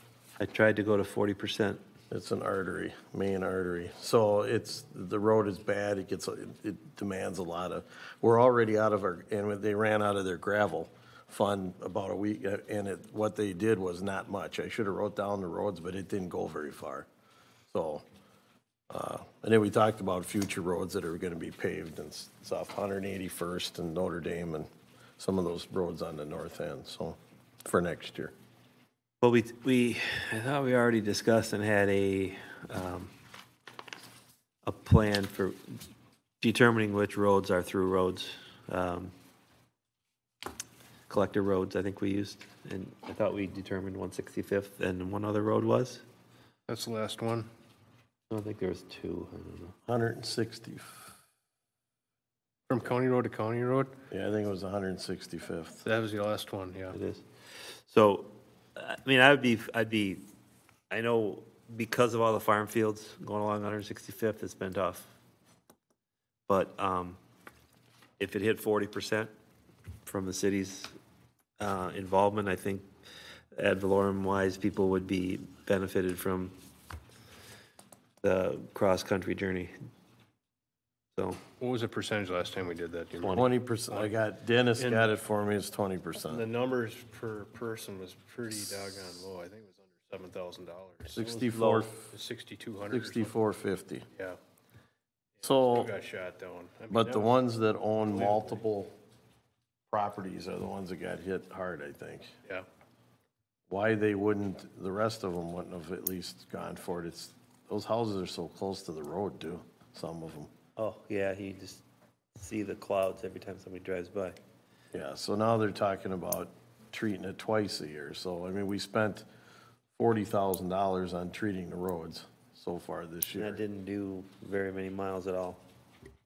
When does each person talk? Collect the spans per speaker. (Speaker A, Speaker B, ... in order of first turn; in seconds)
Speaker A: 0.4-1.8, 29.2-33.1, 34.6-35.8, 36.4-39.1, 41.1-46.0, 48.3-49.7, 56.9-60.2, 60.9-65.1, 66.5-67.2, 68.2-69.3, 70.0-70.9, 71.6-72.8, 73.5-76.5, 78.2-79.7, 83.2-83.5, 91.5-91.9, 110.8-111.8, 112.3-114.4, 123.3-125.6
Speaker B: 2.1-17.1, 17.7-18.0, 18.9-28.3, 49.9-51.1, 54.1-55.8, 83.3-86.4, 91.1-92.0, 92.9-94.0, 95.4-95.9, 96.9-98.9, 99.9-102.3, 103.7-110.5, 114.9-119.2, 120.0-123.6
Speaker C: 46.7-47.5, 52.7-54.0, 55.8-57.0, 81.6-84.1, 84.8-85.1, 86.2-93.3, 95.4-97.3, 98.0-98.6